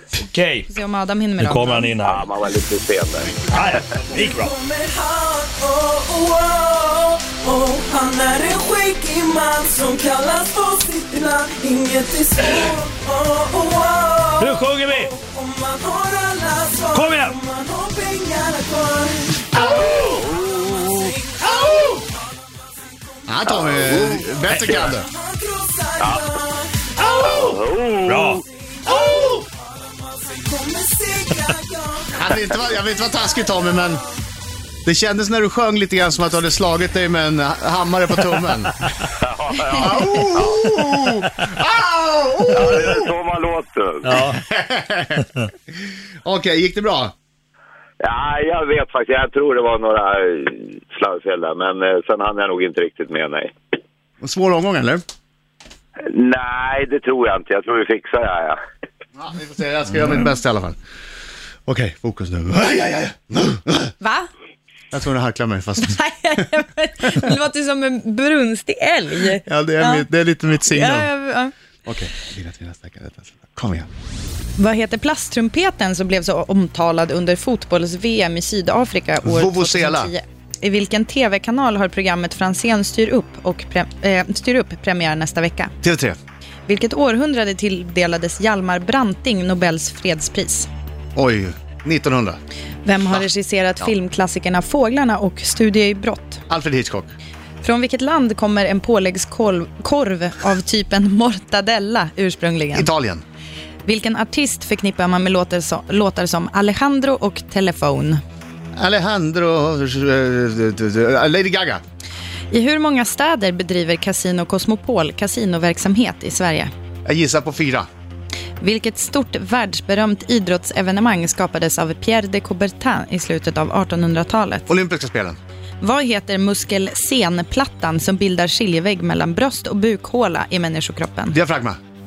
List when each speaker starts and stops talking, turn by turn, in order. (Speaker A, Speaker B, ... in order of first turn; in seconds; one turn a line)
Speaker A: 0.1-0.7
Speaker B: 0.7-1.9
Speaker A: 1.4-2.3
Speaker C: 2.0-3.4
Speaker A: 3.5-4.5
Speaker D: 4.3-19.7
Speaker A: 14.4-15.1
Speaker A: 16.9-17.4
Speaker C: 19.6-20.6
Speaker D: 20.5-21.5
Speaker A: 21.6-21.9
Speaker E: 23.3-25.1
Speaker A: 24.5-24.9
Speaker D: 25.1-27.1
Speaker C: 26.0-26.4
Speaker A: 27.0-29.4
Speaker C: 27.2-28.4
Speaker D: 28.9-29.5
Speaker D: 30.2-32.1
Speaker E: 32.1-34.0
Speaker E: 34.9-38.9
Speaker C: 39.2-40.6
Speaker E: 39.7-43.1
Speaker C: 42.5-44.1
Speaker A: 44.1-44.4
Speaker E: 44.3-45.2
Speaker E: 46.2-47.1
Speaker C: 48.0-53.5
Speaker E: 54.2-55.0
Speaker C: 56.1-58.6
Speaker E: 59.2-60.8
Speaker E: 61.7-63.9
Speaker B: 64.0-64.3
Speaker E: 64.9-66.0
Speaker B: 65.8-70.1
Speaker E: 69.4-71.1
Speaker B: 70.7-71.5
Speaker E: 71.9-73.9
Speaker B: 74.6-85.7
Speaker E: 79.2-80.1
Speaker E: 85.8-86.2
Speaker B: 86.7-90.7
Speaker E: 91.2-92.4
Speaker B: 92.8-96.4
Speaker E: 96.5-97.1
Speaker B: 97.6-102.9
Speaker E: 102.7-103.2
Speaker B: 103.9-108.2
Speaker E: 108.8-111.8
Speaker B: 112.5-116.7
Speaker E: 117.1-117.9
Speaker B: 118.6-124.7
Speaker E: 124.7-125.4
Speaker B: 125.8-131.4
Speaker E: 131.3-131.8